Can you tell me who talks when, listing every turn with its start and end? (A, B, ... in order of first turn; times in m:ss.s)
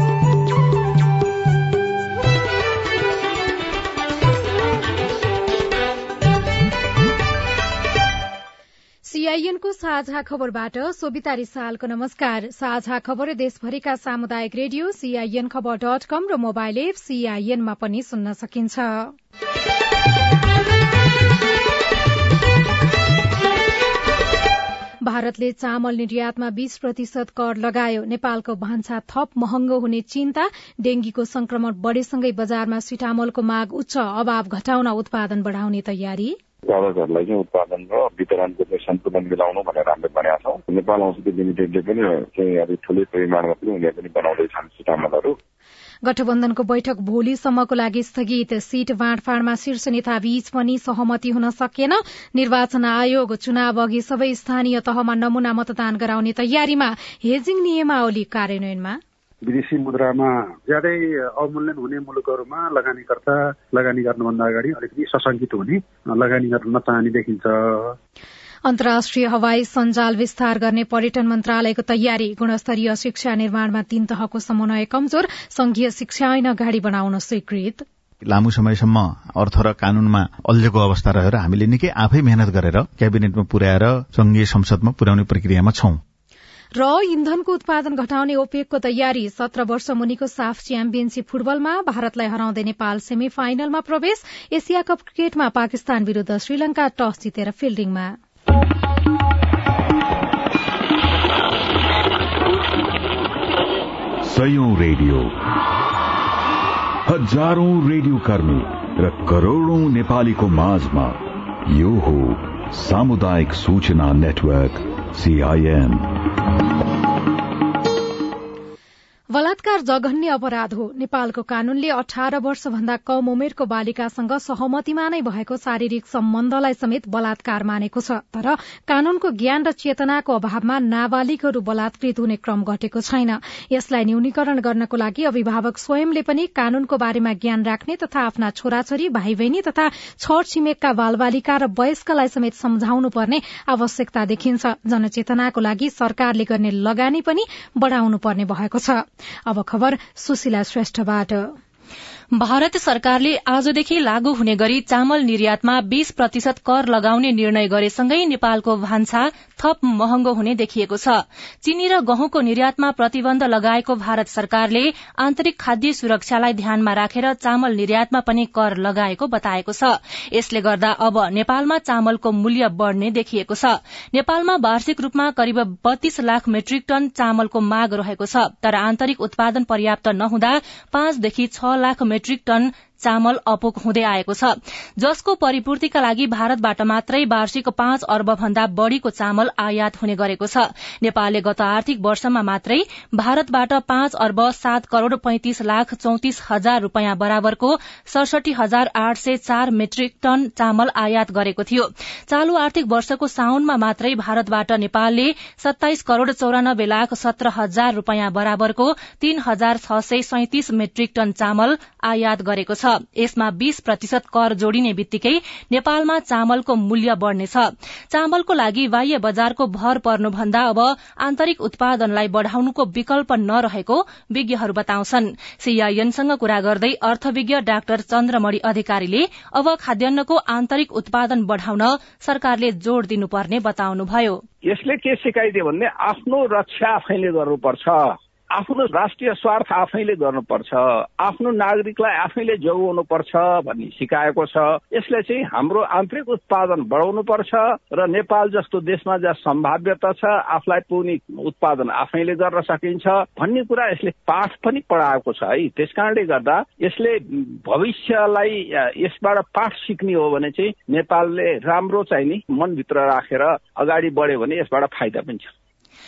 0:09.0-0:19.1 A
0:25.0-0:36.4 A
0:36.7-0:45.4 B
0:46.0-0:59.0 A
0:59.4-1:07.9 C
1:08.7-1:17.8 A
1:18.2-1:26.0 D
1:26.8-1:38.2 A
1:44.2-1:45.4 E
1:47.1-1:56.2 E
1:59.3-2:31.6 A
2:32.4-3:54.4 F
3:54.7-4:25.5 G